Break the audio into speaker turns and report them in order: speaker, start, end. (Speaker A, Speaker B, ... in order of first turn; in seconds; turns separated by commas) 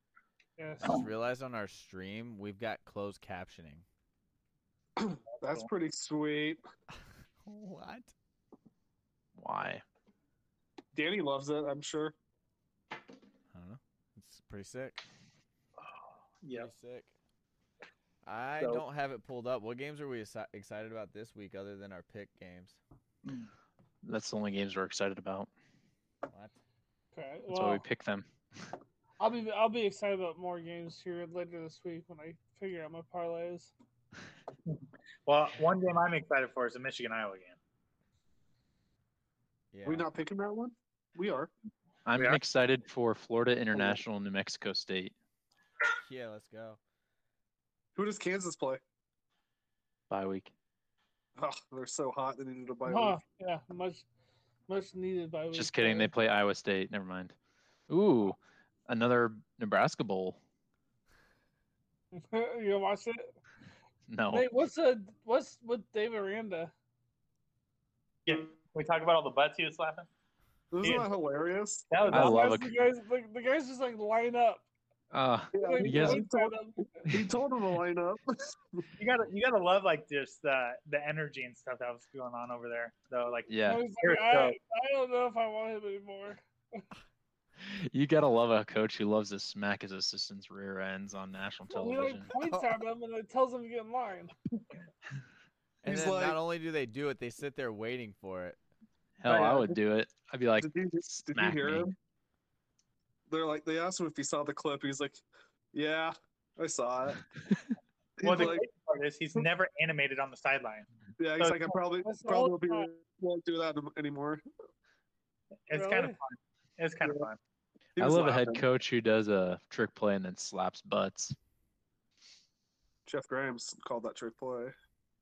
Speaker A: 0.6-1.0, Speaker B: 0.8-3.9, Speaker C: 5.0-6.6, Speaker D: 5.3-5.7, Speaker B: 7.5-8.1, Speaker E: 9.4-9.8, Speaker C: 10.9-12.1, Speaker B: 13.5-15.1, Speaker D: 15.8-16.7, Speaker B: 16.5-17.1, Speaker B: 18.2-22.8, Speaker E: 24.0-25.5, Speaker B: 26.3-26.6, Speaker A: 27.1-27.8, Speaker E: 27.5-28.3, Speaker A: 29.2-33.7, Speaker D: 34.7-37.6, Speaker B: 39.7-40.1, Speaker C: 39.9-41.5, Speaker E: 42.1-45.1, Speaker C: 43.8-44.0, Speaker B: 46.0-46.8, Speaker C: 48.0-48.8, Speaker E: 50.1-50.5, Speaker C: 51.4-53.2, Speaker A: 52.9-54.0, Speaker A: 54.7-56.1, Speaker E: 55.5-57.4, Speaker E: 57.9-60.4, Speaker A: 62.1-63.3, Speaker E: 64.1-64.5, Speaker A: 64.3-66.7, Speaker D: 68.3-70.1, Speaker C: 70.7-71.9, Speaker D: 70.8-71.1, Speaker D: 71.9-72.4, Speaker A: 72.0-74.7, Speaker E: 72.1-72.7, Speaker E: 75.1-76.2, Speaker C: 75.5-76.5, Speaker A: 75.5-77.1, Speaker E: 77.1-77.4, Speaker C: 77.1-78.8, Speaker D: 79.0-84.5, Speaker E: 83.5-83.8, Speaker A: 83.7-86.8, Speaker E: 87.6-92.3, Speaker A: 91.7-94.3, Speaker B: 92.4-92.7, Speaker C: 95.8-96.4, Speaker B: 95.8-98.6, Speaker E: 99.2-101.9, Speaker C: 99.3-99.8, Speaker C: 100.6-102.0, Speaker C: 103.3-105.2, Speaker C: 105.7-107.2, Speaker C: 108.2-108.7, Speaker D: 108.2-110.9, Speaker C: 111.2-114.4, Speaker D: 111.4-111.7, Speaker A: 112.0-112.9, Speaker D: 115.7-117.4, Speaker A: 115.7-116.2, Speaker C: 118.0-118.6, Speaker E: 118.0-121.4, Speaker C: 123.1-124.7